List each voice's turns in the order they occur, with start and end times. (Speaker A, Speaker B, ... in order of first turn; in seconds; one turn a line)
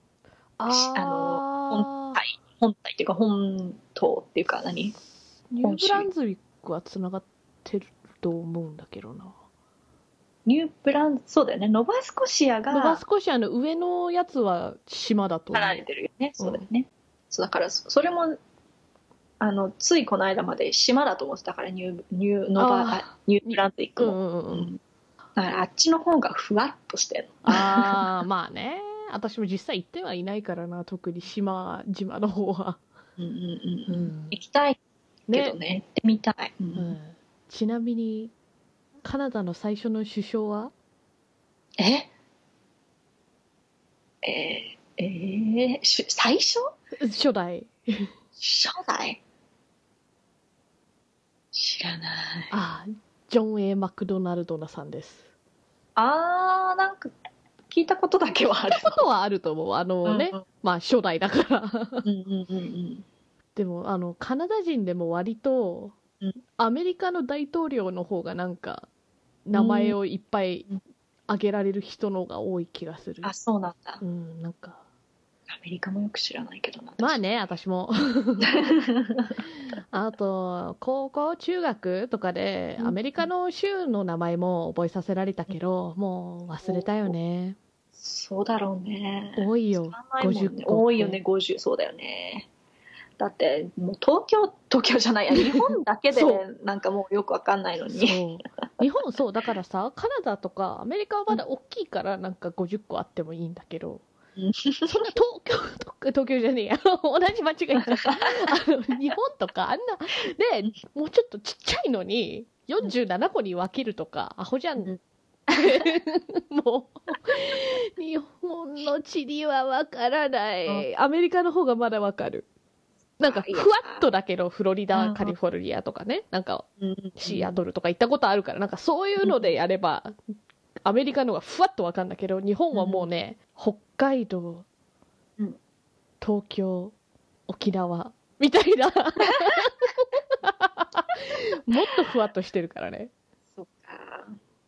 Speaker A: 0.6-2.2
Speaker B: 0.7-5.0
Speaker A: 5.5-9.3
Speaker B: 5.6-6.1
Speaker B: 10.5-13.0
Speaker A: 12.7-15.8
Speaker B: 15.5-18.4
Speaker B: 19.4-24.8
Speaker A: 22.6-24.7
Speaker B: 25.4-28.0
Speaker A: 27.4-32.8
Speaker B: 33.2-34.8
Speaker A: 33.9-34.4
Speaker A: 35.3-35.6
Speaker B: 35.3-37.0
Speaker A: 36.8-38.3
Speaker A: 39.0-40.7
Speaker B: 41.8-42.1
Speaker B: 44.2-46.7
Speaker A: 47.0-48.1
Speaker B: 48.4-49.2
Speaker B: 51.5-52.5
Speaker A: 52.5-55.3
Speaker B: 56.0-57.1
Speaker B: 57.7-59.0
Speaker A: 58.7-62.1
Speaker B: 60.1-60.4
Speaker B: 62.0-63.0
Speaker A: 63.6-66.0
Speaker A: 66.6-68.9
Speaker A: 69.5-70.7
Speaker B: 69.5-70.0
Speaker A: 71.3-73.3
Speaker B: 73.2-74.0
Speaker A: 74.0-74.8
Speaker B: 75.5-77.2
Speaker A: 77.0-78.7
Speaker B: 78.4-79.4
Speaker A: 79.9-87.6
Speaker B: 82.8-83.3
Speaker B: 86.6-87.1
Speaker B: 88.0-92.5
Speaker A: 89.4-91.2
Speaker B: 93.2-98.2
Speaker A: 96.1-96.4
Speaker A: 97.9-104.0
Speaker B: 104.4-105.1
Speaker A: 104.8-114.9
Speaker B: 107.9-108.3
Speaker B: 115.5-115.9
Speaker A: 115.5-122.5
Speaker A: 123.2-130.2
Speaker B: 123.2-124.0
Speaker B: 124.9-125.3
Speaker B: 126.8-127.5
Speaker B: 129.2-129.5
Speaker A: 130.8-134.7
Speaker B: 132.7-133.1
Speaker A: 136.2-136.9
Speaker A: 137.5-143.1
Speaker B: 143.6-144.4